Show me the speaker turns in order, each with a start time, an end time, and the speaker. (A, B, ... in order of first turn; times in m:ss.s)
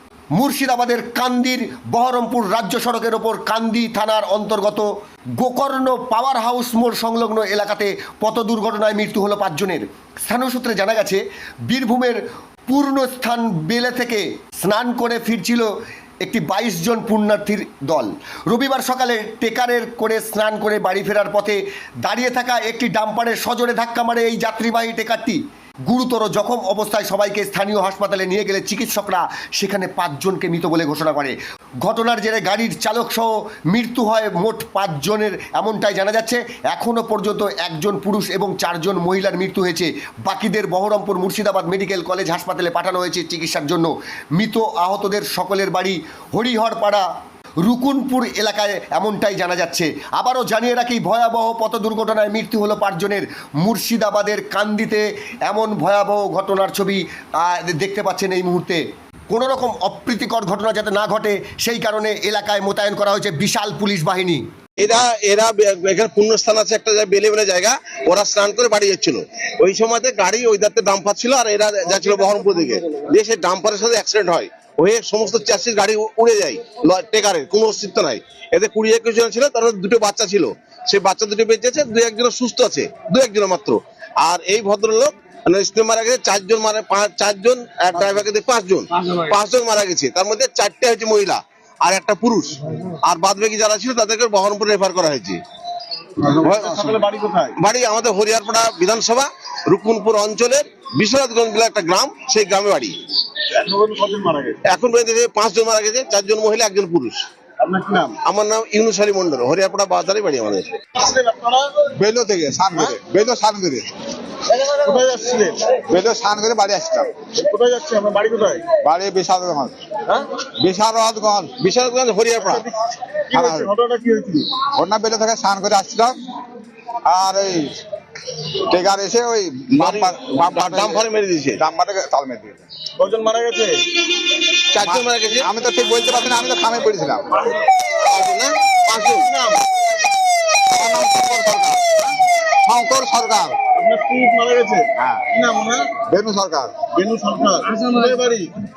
0:00.4-0:04.9 A
0:05.4-0:15.7 A
0:16.2-0:47.0 A
0:47.6-1:04.4 A
1:04.8-1:35.4 B
1:36.2-1:37.5 C
1:36.4-1:37.0 B
1:37.6-1:43.0 B
1:43.5-1:44.6 C
1:44.7-1:47.2 B
1:47.6-1:48.2 C
1:48.2-1:50.7 B
1:51.0-1:51.9 C
1:52.0-1:53.9 D
1:54.5-1:55.8 C
1:55.9-1:57.1 D
1:57.3-1:58.6 C
1:58.8-1:59.8 D
2:00.6-2:01.5 D
2:01.6-2:02.7 B
2:02.4-2:04.5 C
2:03.3-2:03.7 D
2:04.8-2:06.2 D
2:07.0-2:07.8 D
2:08.5-2:11.0 D
2:09.8-2:11.6 B
2:11.6-2:12.6 D
2:13.0-2:13.8 C
2:14.2-2:15.5 B
2:14.8-2:17.3 D
2:17.4-2:17.6 C
2:18.0-2:19.6 B
2:20.7-2:21.8 D
2:22.6-2:23.6 D
2:23.8-2:25.9 C
2:25.0-2:25.2 D
2:26.1-2:26.8 D
2:26.9-2:28.5 C